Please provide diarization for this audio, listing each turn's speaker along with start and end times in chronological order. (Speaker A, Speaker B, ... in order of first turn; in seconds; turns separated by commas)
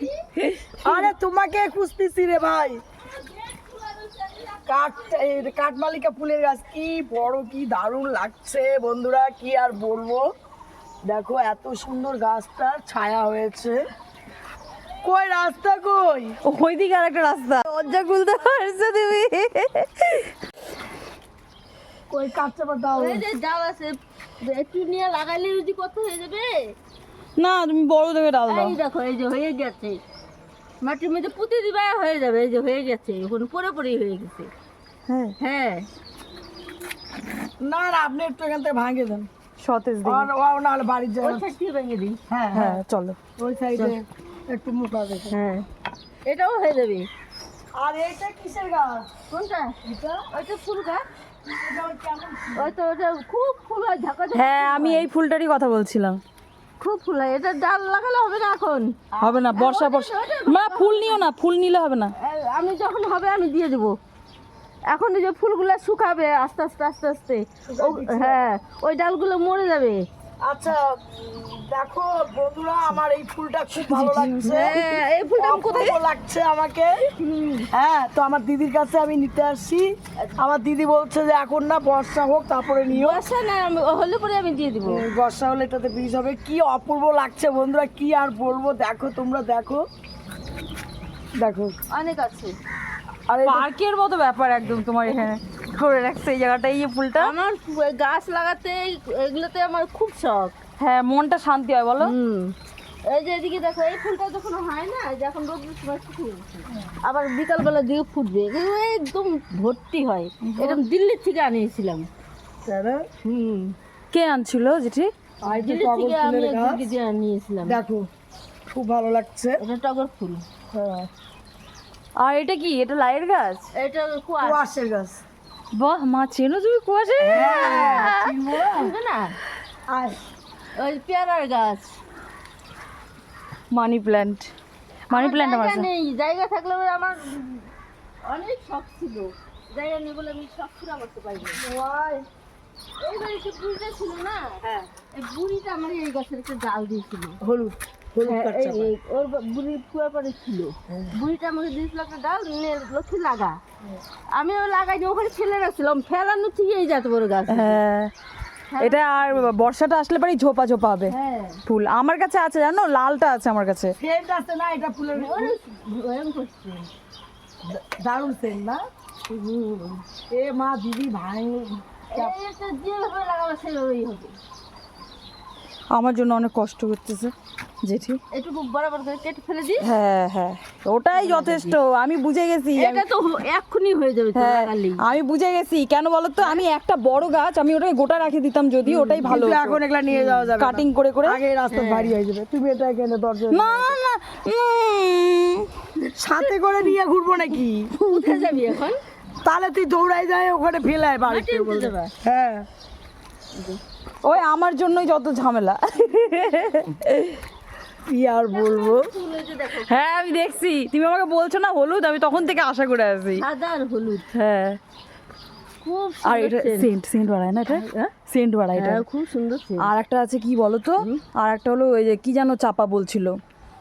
Speaker A: 0.4-1.1, Speaker B: 0.8-2.8, Speaker C: 3.2-4.6, Speaker B: 4.7-10.2, Speaker B: 11.1-13.9, Speaker B: 15.0-16.4, Speaker A: 16.4-20.3, Speaker B: 22.1-23.2, Speaker C: 22.9-26.8, Speaker A: 27.4-28.8, Speaker C: 28.5-30.0, Speaker C: 30.8-34.5, Speaker A: 35.1-35.4, Speaker C: 35.4-35.9, Speaker B: 37.6-39.3, Speaker A: 39.6-40.3, Speaker B: 40.0-41.5, Speaker C: 41.2-42.2, Speaker B: 42.3-42.8, Speaker A: 42.5-43.2, Speaker B: 43.4-45.4, Speaker C: 45.3-45.7, Speaker C: 46.3-47.1, Speaker B: 47.8-49.1, Speaker C: 49.3-49.8, Speaker B: 49.8-50.3, Speaker C: 50.3-51.1, Speaker B: 51.5-52.7, Speaker C: 52.5-55.1, Speaker A: 54.3-56.2, Speaker C: 56.8-61.3, Speaker A: 59.2-62.1, Speaker C: 62.2-64.0, Speaker C: 64.9-70.1, Speaker B: 67.7-68.5, Speaker B: 70.4-77.1, Speaker A: 73.8-75.0, Speaker C: 74.4-76.0, Speaker C: 77.2-77.7, Speaker B: 77.7-83.2, Speaker C: 82.9-85.1, Speaker B: 84.8-89.8, Speaker B: 91.4-91.8, Speaker C: 91.9-92.5, Speaker B: 93.3-93.7, Speaker A: 93.3-97.3, Speaker C: 97.2-100.6, Speaker A: 100.8-102.1, Speaker C: 102.0-112.1, Speaker A: 110.4-110.8, Speaker B: 112.7-113.0, Speaker C: 113.2-113.8, Speaker A: 114.1-115.1, Speaker B: 115.4-116.8, Speaker C: 115.5-117.8, Speaker B: 117.6-118.1, Speaker B: 118.7-119.6, Speaker C: 119.6-120.4, Speaker B: 120.7-121.1, Speaker A: 122.2-123.7, Speaker C: 123.8-124.7, Speaker B: 124.4-125.2, Speaker A: 125.7-128.1, Speaker B: 127.2-128.9, Speaker C: 127.3-129.4, Speaker B: 129.9-130.2, Speaker C: 130.8-131.9, Speaker A: 133.7-134.5, Speaker A: 135.1-135.9, Speaker C: 135.1-137.7, Speaker C: 138.2-141.6, Speaker B: 141.6-142.3, Speaker C: 143.0-144.6, Speaker C: 145.1-147.4, Speaker B: 147.4-148.9, Speaker C: 148.2-153.6, Speaker C: 154.3-157.8, Speaker A: 157.5-158.1, Speaker C: 158.7-159.5, Speaker A: 158.8-161.2, Speaker C: 161.1-161.6, Speaker A: 161.7-163.9, Speaker B: 164.0-165.6, Speaker C: 165.1-166.9, Speaker B: 167.7-168.8, Speaker C: 169.3-170.0, Speaker B: 170.3-172.3, Speaker C: 172.1-174.4, Speaker A: 175.9-177.3, Speaker A: 177.8-178.2, Speaker C: 178.3-179.9, Speaker A: 179.8-183.1, Speaker C: 181.1-181.8, Speaker C: 182.8-185.0, Speaker A: 184.3-189.8, Speaker C: 188.8-189.4, Speaker B: 189.2-194.0, Speaker C: 190.1-190.5, Speaker A: 190.6-191.4, Speaker C: 191.7-192.2, Speaker A: 193.5-195.7, Speaker B: 196.2-197.9, Speaker C: 198.0-199.0, Speaker B: 199.4-202.7, Speaker C: 201.3-202.1, Speaker C: 203.6-203.8, Speaker A: 204.2-207.4, Speaker B: 208.1-209.1, Speaker C: 208.4-209.9, Speaker A: 209.8-213.4, Speaker C: 213.4-214.2, Speaker A: 214.3-214.8, Speaker C: 215.8-216.9, Speaker A: 216.2-219.0, Speaker C: 217.7-218.1, Speaker C: 218.8-219.9, Speaker A: 219.8-223.4